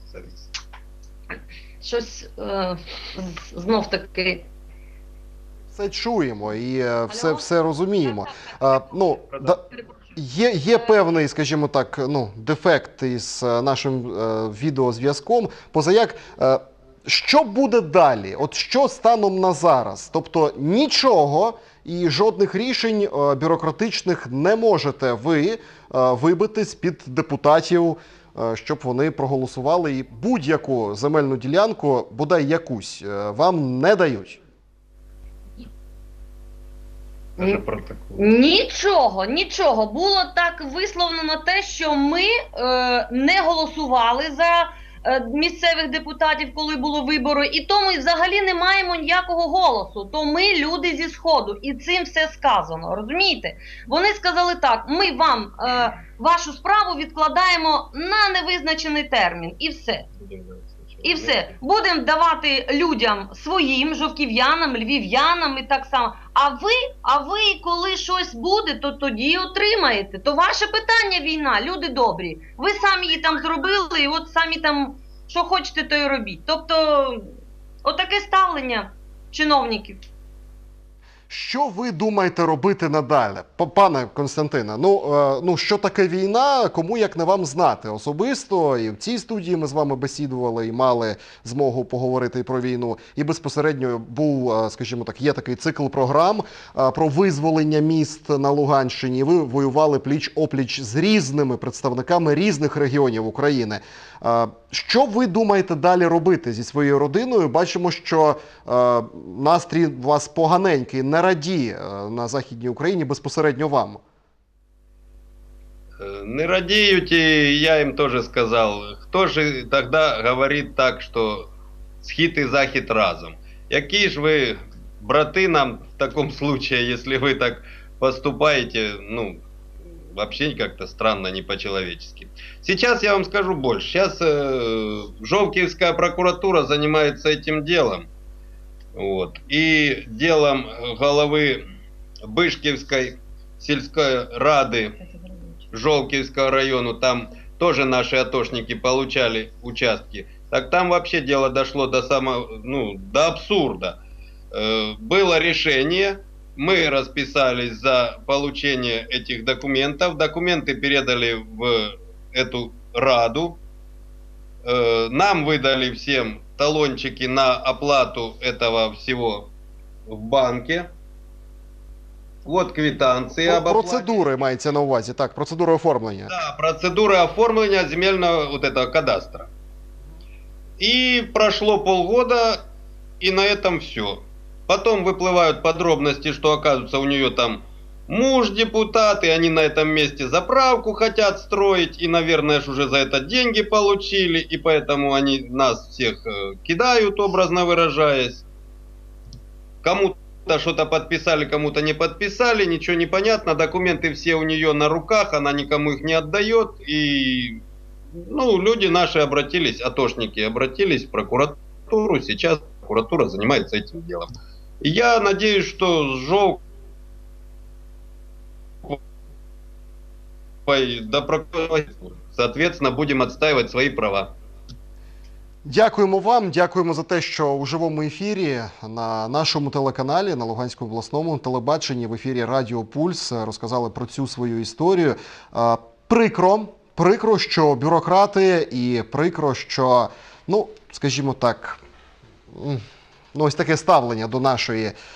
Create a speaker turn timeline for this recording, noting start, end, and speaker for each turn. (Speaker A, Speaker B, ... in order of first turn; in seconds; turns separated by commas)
Speaker A: 0.1-0.5, Speaker B: 1.8-4.5, Speaker C: 5.7-9.6, Speaker B: 7.1-7.5, Speaker B: 8.2-8.6, Speaker C: 10.2-34.4, Speaker A: 37.4-38.3, Speaker B: 38.2-60.1, Speaker A: 60.2-61.4, Speaker B: 61.0-77.3, Speaker B: 77.8-80.0, Speaker C: 81.3-114.0, Speaker A: 116.0-121.5, Speaker A: 122.0-138.1, Speaker A: 138.9-141.6, Speaker A: 142.3-145.0, Speaker A: 145.7-154.0, Speaker A: 154.5-163.6, Speaker A: 164.7-169.5, Speaker A: 170.1-170.9, Speaker A: 172.4-174.2, Speaker C: 173.4-176.3, Speaker A: 176.3-179.5, Speaker A: 180.8-182.6, Speaker A: 183.2-198.4, Speaker A: 199.8-214.3, Speaker A: 214.8-216.6, Speaker A: 220.7-224.3, Speaker C: 225.6-241.8, Speaker C: 242.5-242.8, Speaker C: 243.3-245.0